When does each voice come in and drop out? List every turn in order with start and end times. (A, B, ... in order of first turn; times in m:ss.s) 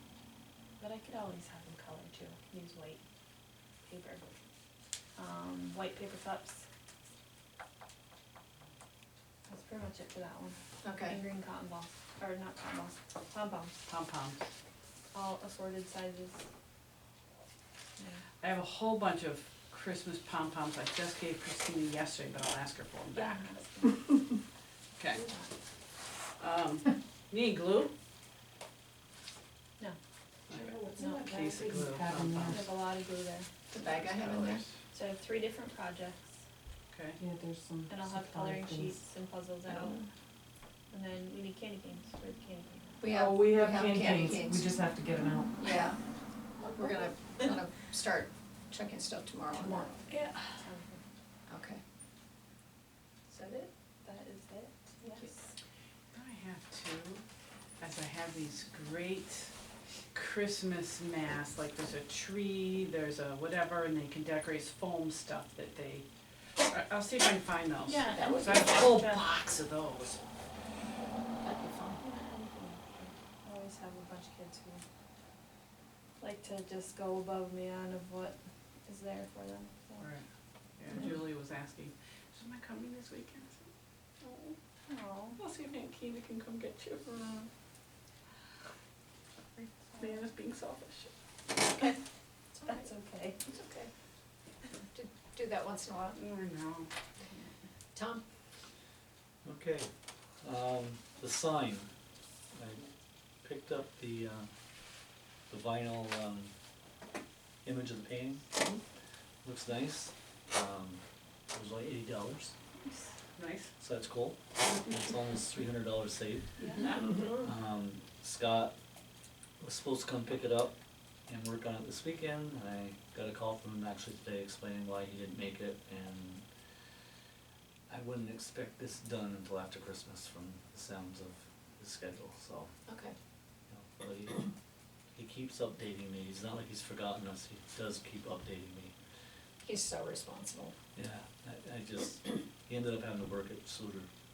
0:00.8-0:03.0 A
0:03.8-0:04.2 A
0:05.2-0:06.6 A
0:09.5-0:13.8 A
0:10.8-0:11.2 B
0:13.9-0:14.4 C
0:15.1-0:16.4 A
0:18.0-0:18.2 A
0:18.4-0:23.4 C
0:23.1-0:24.2 A
0:25.0-0:25.2 C
0:25.1-0:25.5 A
0:26.4-0:27.9 C
0:30.5-0:32.7 C
0:30.5-0:32.7 D
0:31.0-0:31.4 A
0:32.4-0:33.5 A
0:33.7-0:34.6 B
0:33.9-0:34.7 C
0:34.9-0:36.3 A
0:36.9-0:37.2 C
0:37.2-0:39.0 D
0:37.9-0:40.1 A
0:40.9-0:43.0 A
0:43.0-0:44.7 B
0:43.1-0:45.7 D
0:45.6-0:46.0 B
0:46.6-0:50.0 B
0:49.6-0:51.0 A
0:51.5-0:51.8 B
0:53.3-0:55.5 A
0:56.1-0:57.2 C
0:57.8-0:59.5 C
1:00.1-1:06.0 C
1:06.7-1:10.2 C
1:07.8-1:09.3 A
1:08.1-1:08.9 B
1:11.4-1:12.0 B
1:12.0-1:14.8 A
1:16.2-1:20.1 A
1:20.0-1:20.2 C
1:20.8-1:23.7 C
1:24.2-1:24.6 C
1:24.9-1:25.4 A
1:25.4-1:27.1 C
1:27.1-1:27.5 B
1:29.6-1:30.2 A
1:30.0-1:31.1 C
1:32.6-1:32.8 B
1:32.7-1:33.4 A
1:33.5-1:33.9 B
1:34.9-1:36.2 B
1:36.1-1:37.4 C
1:37.9-1:38.2 B
1:39.4-1:39.9 E
1:40.4-1:41.9 E
1:42.5-1:42.8 E
1:43.4-1:44.5 E
1:45.5-1:46.5 E
1:47.6-1:48.4 E
1:49.4-1:52.5 E
1:53.4-1:53.7 C
1:53.8-1:58.7 E
1:56.6-1:56.9 A
1:59.6-2:00.8 E
2:01.3-2:06.4 E
2:07.9-2:12.7 E
2:12.9-2:13.1 B
2:13.7-2:14.5 E
2:15.2-2:18.9 E
2:19.6-2:20.7 B
2:21.0-2:24.1 E